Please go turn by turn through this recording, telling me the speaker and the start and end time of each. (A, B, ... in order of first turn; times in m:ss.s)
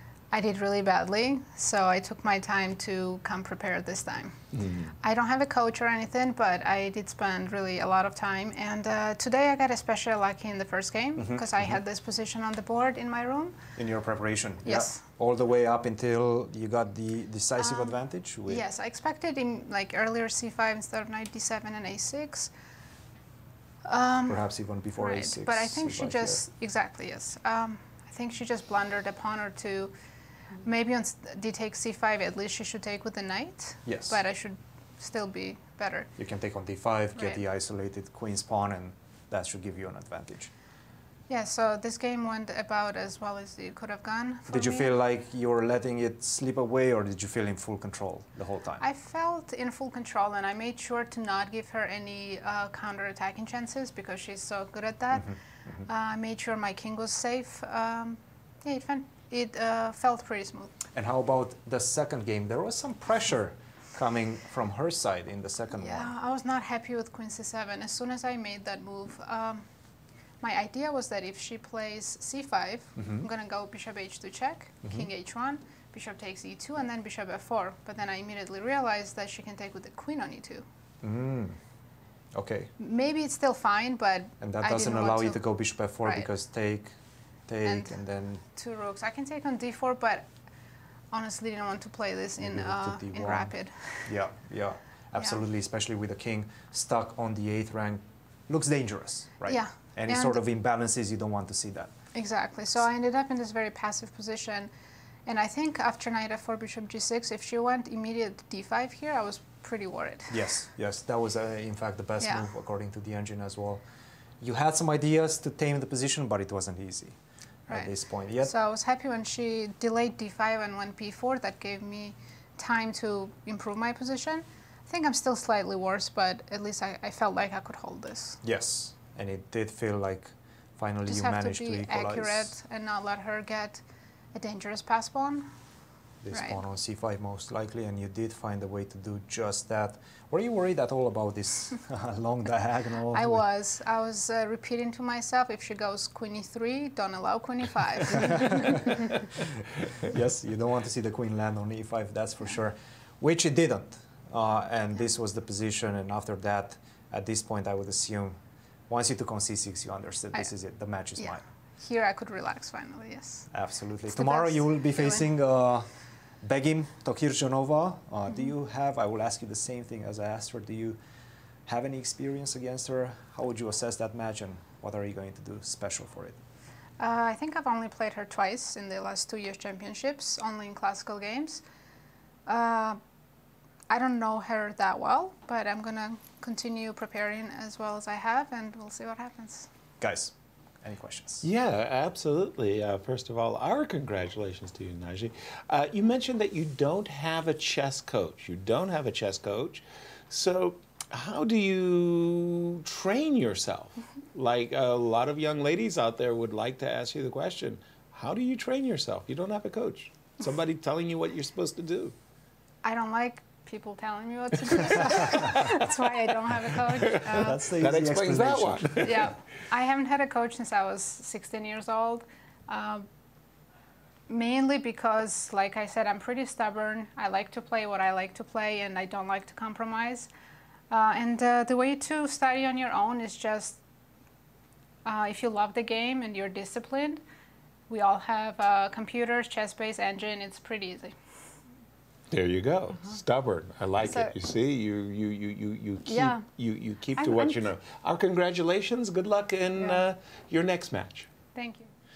0:00.3-0:13.6 A
0:04.6-0:04.8 B
0:11.2-0:11.8 C
0:13.8-0:18.6 C
0:14.6-0:15.0 A
0:17.6-0:22.5 A
0:23.8-0:29.9 A
0:24.3-0:26.4 C
0:30.6-0:36.1 A
0:33.8-0:34.2 C
0:36.2-0:40.5 C
0:37.1-0:37.4 A
0:41.3-0:44.9 A
0:44.5-0:48.8 C
0:48.8-1:00.8 A
0:55.1-0:55.8 C
1:00.9-1:06.1 C
1:05.8-1:09.6 A
1:10.4-1:20.6 A
1:13.0-1:13.3 C
1:21.0-1:21.6 C
1:22.3-1:22.7 C
1:22.8-1:26.3 A
1:24.4-1:26.9 C
1:27.5-1:28.4 C
1:27.6-1:30.3 A
1:31.1-1:34.2 A
1:32.4-1:41.9 C
1:39.4-1:40.4 A
1:42.1-1:44.7 A
1:45.2-1:50.5 A
1:50.3-1:53.8 C
1:52.2-1:52.5 A
1:54.4-1:57.2 C
1:57.7-2:08.4 A
1:57.7-1:58.5 C
2:08.4-2:12.5 C
2:11.1-2:13.8 A
2:14.3-2:15.5 A
2:16.2-2:23.4 C
2:16.3-2:16.6 A
2:23.1-2:29.1 A
2:28.2-2:29.1 C
2:30.0-2:38.4 C
2:38.9-2:41.4 C
2:41.2-2:43.5 A
2:43.5-2:45.9 C
2:44.1-2:45.3 A
2:46.4-2:51.0 C
2:51.7-2:56.4 C
2:57.0-3:01.6 A
3:02.5-3:03.0 A
3:03.9-3:09.7 A
3:10.0-3:11.4 C
3:11.4-3:32.1 B
3:32.8-3:37.7 A
3:35.0-3:35.8 B
3:36.9-3:39.3 B
3:37.3-3:39.0 C
3:39.0-3:43.0 A
3:44.3-3:50.3 A
3:50.9-3:53.8 A
3:55.0-3:57.2 A
3:57.9-4:01.2 A
4:02.3-4:11.3 B
4:04.0-4:04.3 A
4:06.1-4:06.4 A
4:11.5-4:11.9 A